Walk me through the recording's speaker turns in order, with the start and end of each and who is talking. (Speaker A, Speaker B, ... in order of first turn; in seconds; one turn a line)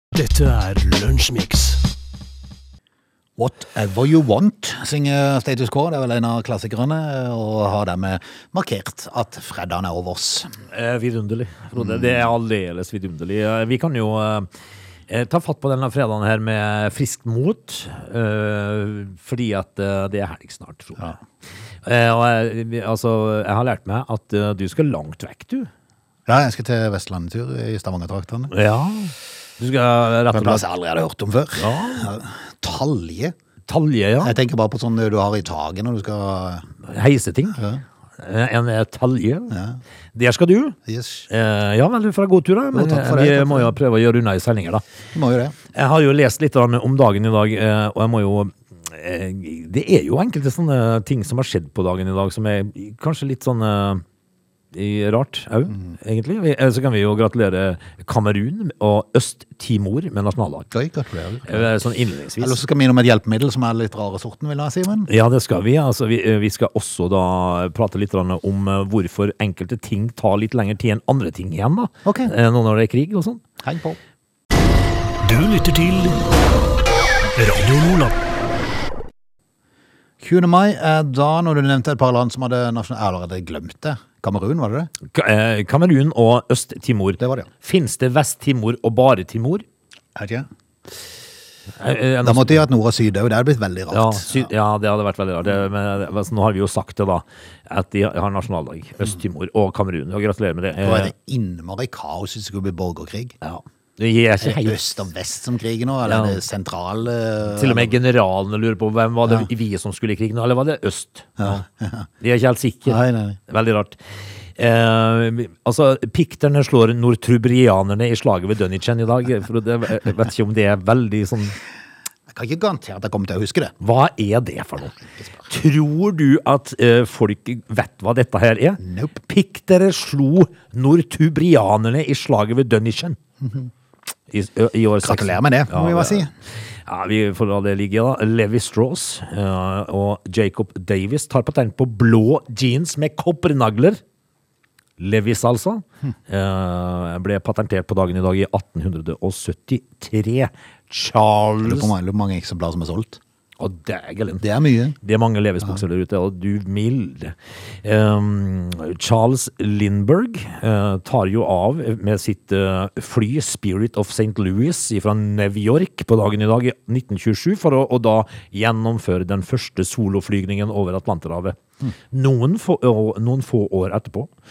Speaker A: 0.1-1.8
Speaker B: 3.4-10.6
Speaker C: 10.7-14.5
Speaker B: 11.8-12.1
Speaker C: 15.1-21.1
Speaker C: 21.8-25.7
Speaker B: 26.3-28.5
Speaker C: 28.5-30.6
Speaker B: 30.3-33.4
Speaker C: 31.6-32.1
Speaker C: 33.7-34.4
Speaker B: 34.2-36.7
Speaker C: 36.8-37.6
Speaker B: 37.5-37.8
Speaker C: 38.2-39.6
Speaker B: 39.5-39.8
Speaker C: 40.1-40.8
Speaker B: 40.9-41.3
Speaker C: 41.3-44.8
Speaker B: 42.7-43.7
Speaker B: 45.1-45.5
Speaker C: 45.7-54.0
Speaker C: 54.7-60.7
Speaker B: 60.7-61.8
Speaker C: 61.5-62.6
Speaker B: 62.4-65.1
Speaker C: 65.1-73.4
Speaker B: 72.0-72.3
Speaker B: 73.6-74.0
Speaker A: 75.2-76.2
Speaker A: 77.4-78.2
Speaker B: 80.2-84.9
Speaker C: 85.1-89.7
Speaker B: 87.2-87.5
Speaker B: 90.2-90.5
Speaker C: 91.8-92.7
Speaker B: 92.2-94.5
Speaker C: 93.9-101.1
Speaker B: 100.8-103.4
Speaker C: 103.4-104.8
Speaker B: 104.4-108.0
Speaker C: 106.1-106.4
Speaker C: 107.5-111.6
Speaker B: 111.4-112.1
Speaker C: 112.2-121.6
Speaker B: 112.9-113.4
Speaker B: 122.3-123.7
Speaker C: 123.8-133.2
Speaker B: 128.8-129.2
Speaker C: 134.3-136.3
Speaker B: 135.0-136.3
Speaker C: 136.9-144.0
Speaker C: 145.0-151.9
Speaker B: 151.6-153.2
Speaker C: 153.6-154.4
Speaker B: 154.4-155.0
Speaker C: 155.0-171.6
Speaker C: 172.1-174.3